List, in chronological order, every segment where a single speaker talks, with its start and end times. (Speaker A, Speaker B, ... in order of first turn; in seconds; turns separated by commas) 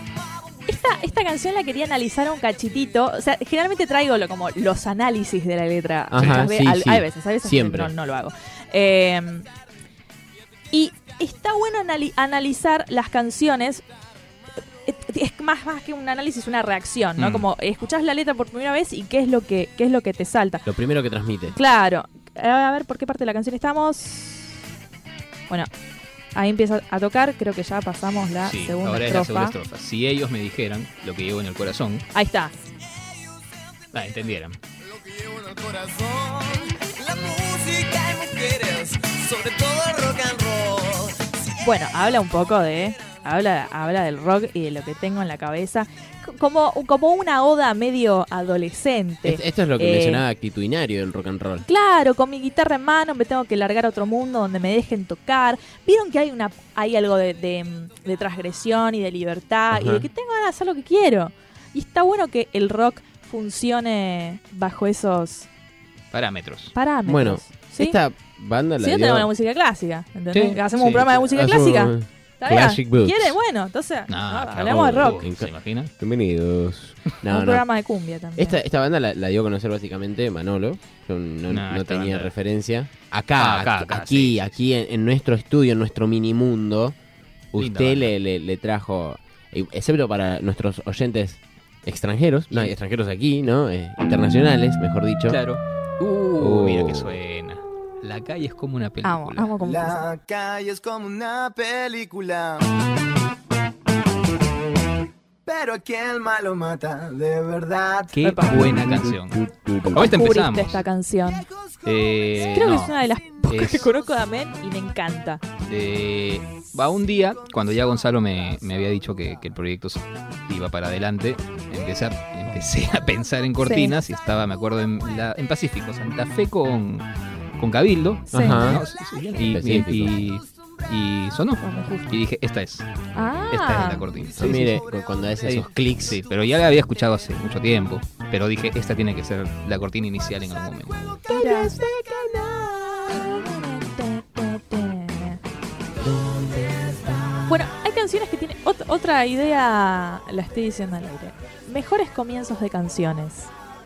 Speaker A: 0.7-9.5, Speaker B: 6.1-7.9, Speaker C: 6.2-6.5, Speaker A: 10.7-13.9, Speaker A: 14.8-20.7, Speaker C: 17.2-17.5, Speaker B: 20.7-21.6, Speaker A: 21.5-24.6, Speaker A: 26.3-29.6, Speaker C: 28.4-32.0, Speaker A: 32.1-32.5, Speaker C: 33.9-34.6, Speaker D: 34.9-41.2, Speaker A: 41.6-50.2, Speaker B: 49.2-51.7, Speaker A: 51.7-65.5, Speaker B: 59.7-60.1, Speaker C: 66.1-66.7, Speaker A: 66.7-68.0, Speaker B: 67.0-69.3, Speaker A: 68.8-75.2, Speaker C: 70.3-71.1, Speaker B: 71.0-73.4, Speaker C: 74.1-75.9, Speaker B: 74.7-77.7, Speaker A: 77.3-78.6, Speaker B: 78.4-87.0, Speaker C: 81.5-82.3, Speaker C: 83.4-84.5, Speaker B: 87.5-95.4, Speaker C: 87.6-88.1, Speaker C: 95.3-99.5, Speaker B: 96.4-97.2, Speaker A: 99.0-100.1, Speaker D: 99.6-102.7, Speaker D: 105.5-108.2, Speaker C: 108.1-110.8, Speaker A: 108.2-108.7, Speaker B: 108.5-110.1, Speaker A: 109.9-111.5, Speaker C: 111.8-113.9, Speaker A: 112.3-115.4, Speaker C: 115.6-127.1, Speaker A: 123.6-124.0, Speaker C: 127.6-134.7, Speaker A: 128.3-128.7, Speaker B: 128.3-128.8, Speaker B: 129.4-130.2, Speaker A: 131.6-132.2, Speaker A: 133.1-134.1, Speaker D: 134.2-134.8, Speaker B: 134.4-136.2, Speaker C: 135.4-141.3, Speaker D: 141.2-141.7, Speaker A: 141.3-141.9, Speaker B: 141.8-143.0, Speaker A: 143.0-145.4, Speaker B: 146.4-146.9, Speaker A: 147.4-153.5